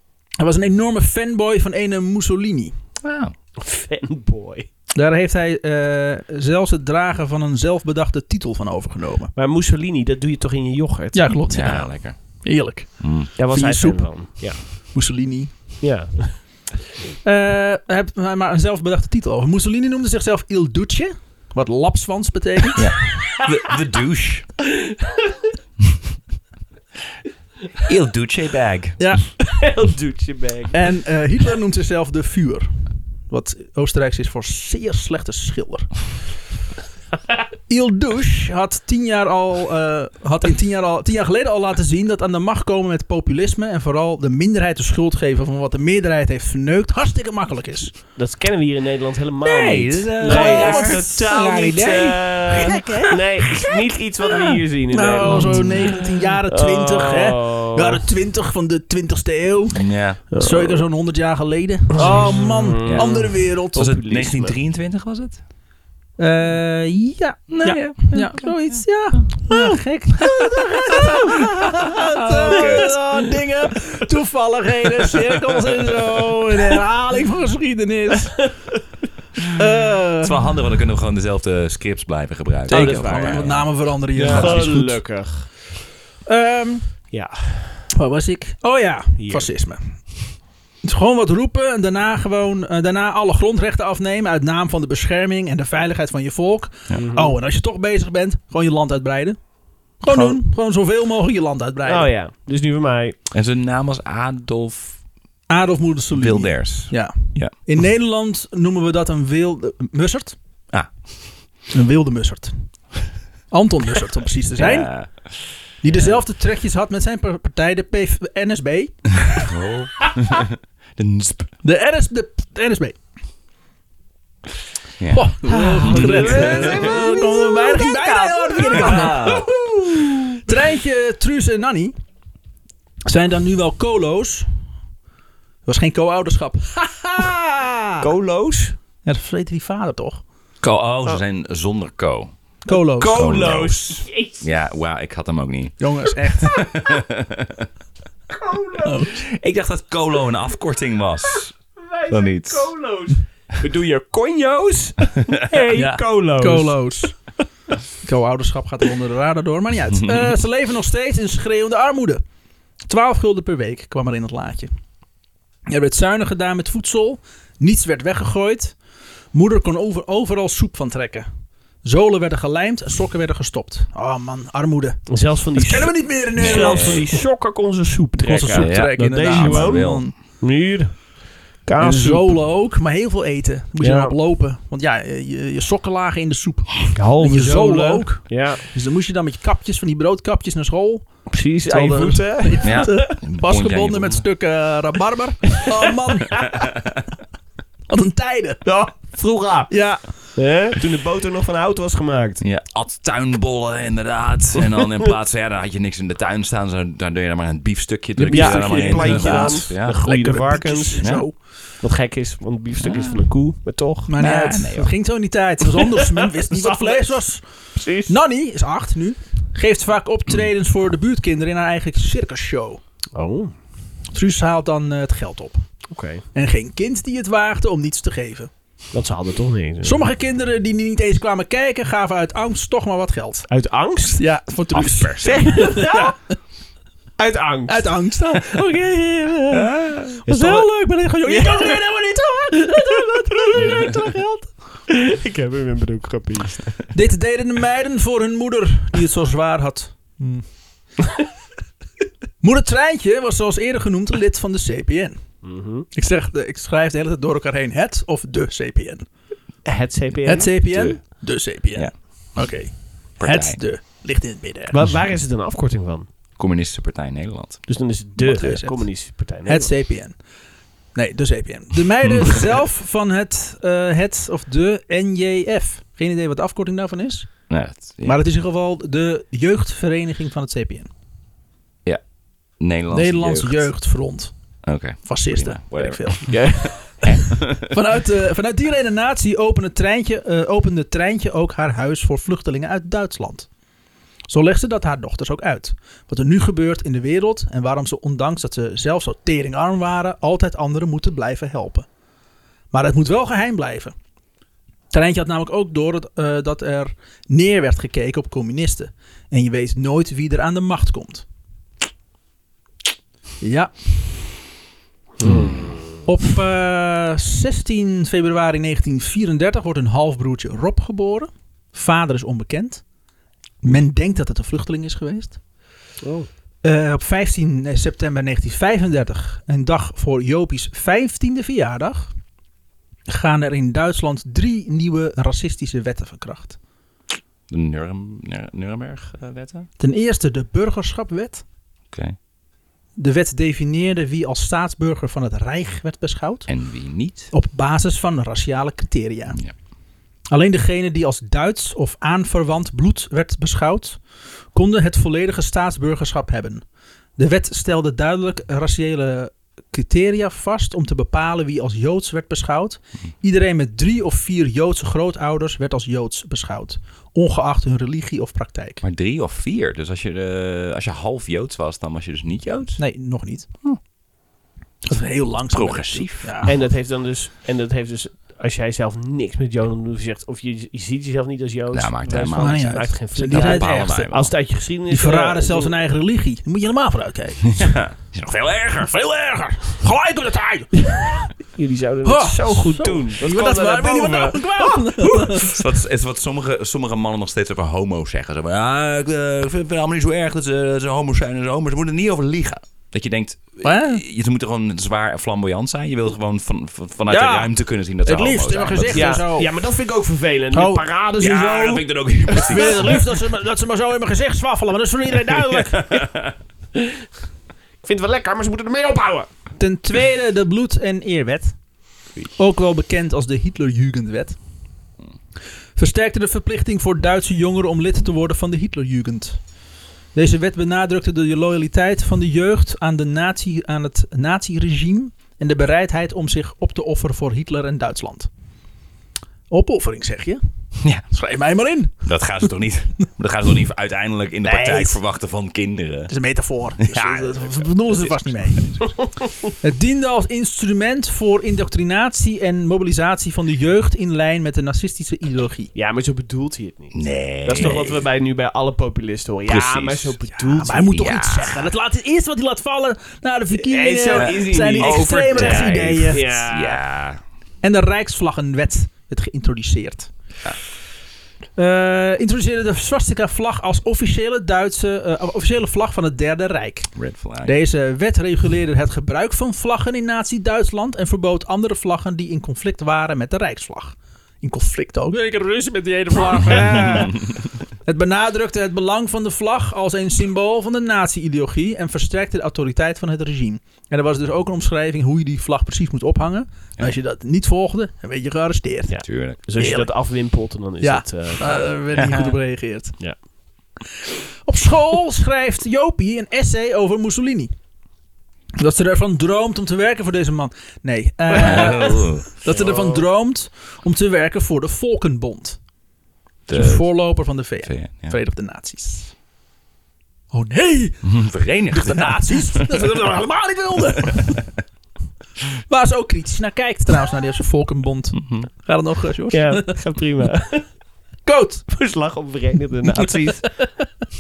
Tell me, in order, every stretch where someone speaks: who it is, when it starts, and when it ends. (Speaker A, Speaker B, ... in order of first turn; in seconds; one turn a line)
Speaker A: 0.4-2.7
Speaker B: 3.0-3.3
Speaker C: 3.6-4.7
Speaker A: 5.0-9.3
Speaker C: 9.4-11.4
Speaker A: 11.1-15.6
Speaker B: 11.5-12.4
Speaker B: 13.0-13.3
Speaker C: 13.4-14.7
Speaker C: 15.8-16.4
Speaker A: 17.2-22.9
Speaker B: 22.8-24.5
Speaker C: 24.9-25.3
Speaker B: 27.8-29.0
Speaker A: 29.0-29.3
Speaker C: 29.5-30.8
Speaker A: 30.7-32.7
Speaker A: 33.3-35.9
Speaker A: 37.7-48.0
Speaker C: 48.1-58.0
Speaker B: 49.4-52.8
Speaker A: 50.2-51.1
Speaker A: 52.5-53.7
Speaker A: 54.3-64.0
Speaker B: 55.3-55.8
Speaker B: 59.8-60.2
Speaker C: 60.3-60.8
Speaker C: 62.0-64.6
Speaker B: 62.8-63.2
Speaker B: 63.7-65.4
Speaker A: 66.2-78.5
Speaker B: 67.5-69.3
Speaker C: 70.6-71.1
Speaker B: 72.2-72.9
Speaker C: 72.5-73.0
Speaker A: 79.5-80.5
Speaker B: 80.2-83.7
Speaker C: 82.7-83.5
Speaker A: 82.7-85.0
Speaker C: 84.2-85.5
Speaker B: 84.3-84.7
Speaker A: 86.3-86.9
Speaker C: 87.1-87.8
Speaker A: 87.9-89.9
Speaker C: 89.2-89.5
Speaker A: 90.8-99.4
Speaker C: 97.0-97.4
Speaker A: 100.0-102.1
Speaker B: 100.1-100.4
Speaker C: 101.9-103.2
Speaker B: 103.3-105.0
Speaker A: 105.5-110.4
Speaker B: 106.1-107.5
Speaker A: 111.7-112.5
Speaker A: 113.5-114.9
Speaker B: 114.6-115.6
Speaker A: 115.8-119.1
Speaker B: 119.3-121.5
Speaker A: 121.6-123.0
Speaker B: 125.0-127.1
Speaker A: 125.1-131.9
Speaker C: 125.5-129.4
Speaker B: 128.7-129.5
Speaker A: 133.1-134.5
Speaker A: 135.7-138.1
Speaker C: 138.0-138.8
Speaker A: 139.1-140.2
Speaker B: 140.6-142.3
Speaker A: 142.7-143.3
Speaker C: 142.7-144.4
Speaker B: 143.1-145.8
Speaker A: 145.8-146.6
Speaker B: 146.4-147.7
Speaker C: 148.3-149.2
Speaker A: 148.8-149.2
Speaker B: 149.2-151.6
Speaker C: 151.3-156.8
Speaker B: 152.1-152.7
Speaker B: 155.0-155.5
Speaker A: 155.7-157.2
Speaker A: 158.0-162.2
Speaker A: 162.9-164.7
Speaker A: 165.7-168.8
Speaker A: 169.3-171.3
Speaker A: 171.8-177.2
Speaker C: 175.1-181.1
Speaker B: 176.4-177.0
Speaker A: 178.2-180.1
Speaker B: 178.6-180.1
Speaker C: 181.7-182.4
Speaker A: 181.8-191.1
Speaker C: 183.8-184.2
Speaker C: 187.0-188.7
Speaker C: 191.3-192.9
Speaker A: 191.7-196.5
Speaker B: 192.6-194.2
Speaker B: 196.4-196.9
Speaker A: 197.9-198.6
Speaker C: 198.7-202.4
Speaker A: 199.7-200.3
Speaker B: 202.4-210.1
Speaker A: 208.2-211.4
Speaker C: 208.3-214.1
Speaker B: 212.8-213.2
Speaker A: 214.1-217.4
Speaker B: 214.2-214.9
Speaker C: 216.4-217.2
Speaker C: 217.8-218.1
Speaker A: 218.1-222.8
Speaker C: 223.2-223.5
Speaker A: 224.1-225.6
Speaker C: 225.9-226.2
Speaker A: 226.3-228.5
Speaker C: 228.9-230.1
Speaker A: 229.8-233.5
Speaker C: 233.5-234.2
Speaker A: 234.1-236.2
Speaker B: 234.7-235.6
Speaker C: 235.2-236.2
Speaker C: 237.2-237.9
Speaker A: 237.7-244.5
Speaker B: 239.5-240.1
Speaker C: 240.3-240.7
Speaker C: 241.2-241.8
Speaker C: 242.7-243.9
Speaker C: 244.9-246.8
Speaker A: 246.9-250.4
Speaker A: 252.4-255.2
Speaker C: 255.4-255.9
Speaker A: 255.9-259.1
Speaker C: 259.6-260.5
Speaker A: 260.2-264.8
Speaker B: 260.7-261.0
Speaker B: 263.2-263.6
Speaker C: 264.7-266.1
Speaker B: 266.4-267.7
Speaker C: 267.7-269.7
Speaker A: 268.2-270.2
Speaker A: 270.9-277.4
Speaker B: 277.5-278.2
Speaker A: 278.0-280.9
Speaker B: 282.6-283.7
Speaker A: 282.9-284.4
Speaker B: 284.6-287.7
Speaker A: 285.0-293.5
Speaker C: 286.3-287.1
Speaker A: 294.3-301.9
Speaker A: 302.7-303.9
Speaker A: 304.9-311.3
Speaker A: 313.4-313.7
Speaker C: 315.2-315.9
Speaker B: 315.2-315.8
Speaker A: 316.1-322.8
Speaker A: 323.6-325.4
Speaker C: 326.0-326.3
Speaker A: 326.6-332.1
Speaker A: 333.1-336.6
Speaker B: 337.5-339.7
Speaker A: 339.8-341.4
Speaker A: 343.0-346.5
Speaker B: 346.5-347.3
Speaker A: 347.3-349.4
Speaker A: 350.3-354.0
Speaker A: 354.5-356.6
Speaker A: 357.2-368.8
Speaker B: 368.8-372.8
Speaker A: 372.8-373.5
Speaker A: 374.8-376.5
Speaker B: 375.5-376.5
Speaker C: 376.4-385.7
Speaker B: 381.7-384.3
Speaker A: 382.3-384.1
Speaker A: 384.9-387.8
Speaker B: 387.5-388.9
Speaker A: 388.8-391.3
Speaker C: 391.4-395.1
Speaker A: 392.1-395.6
Speaker B: 395.4-409.2
Speaker A: 403.6-404.0
Speaker A: 407.1-407.5
Speaker A: 408.0-409.5
Speaker C: 408.9-413.1
Speaker A: 410.5-410.9
Speaker B: 411.2-413.0
Speaker A: 412.5-415.8
Speaker B: 415.5-416.4
Speaker C: 417.8-419.3
Speaker A: 419.6-421.6
Speaker A: 422.4-424.4
Speaker A: 425.8-429.4
Speaker A: 430.1-438.3
Speaker A: 439.5-440.4
Speaker A: 441.1-442.0
Speaker B: 442.0-446.1
Speaker A: 444.4-445.0
Speaker A: 446.1-448.9
Speaker B: 446.8-448.9
Speaker A: 449.6-455.7
Speaker C: 455.8-460.9
Speaker B: 456.9-458.0
Speaker B: 459.5-460.2
Speaker A: 460.3-466.2
Speaker B: 460.8-461.7
Speaker C: 463.5-466.8
Speaker B: 464.1-467.2
Speaker A: 467.6-470.1
Speaker A: 471.6-476.9
Speaker B: 477.0-477.5
Speaker A: 477.4-487.3
Speaker A: 487.9-499.0
Speaker C: 498.9-501.7
Speaker B: 499.0-499.4
Speaker A: 499.6-499.9
Speaker A: 500.8-503.0
Speaker B: 501.9-502.4
Speaker A: 504.5-507.5
Speaker A: 508.6-515.6
Speaker C: 511.3-513.1
Speaker B: 511.4-512.2
Speaker B: 516.5-516.9
Speaker A: 516.5-519.1
Speaker B: 517.6-518.2
Speaker A: 520.3-521.1
Speaker B: 521.0-522.7
Speaker A: 521.7-524.4
Speaker A: 525.7-529.8
Speaker B: 528.2-528.5
Speaker C: 529.3-530.7
Speaker A: 531.3-531.7
Speaker C: 531.7-533.5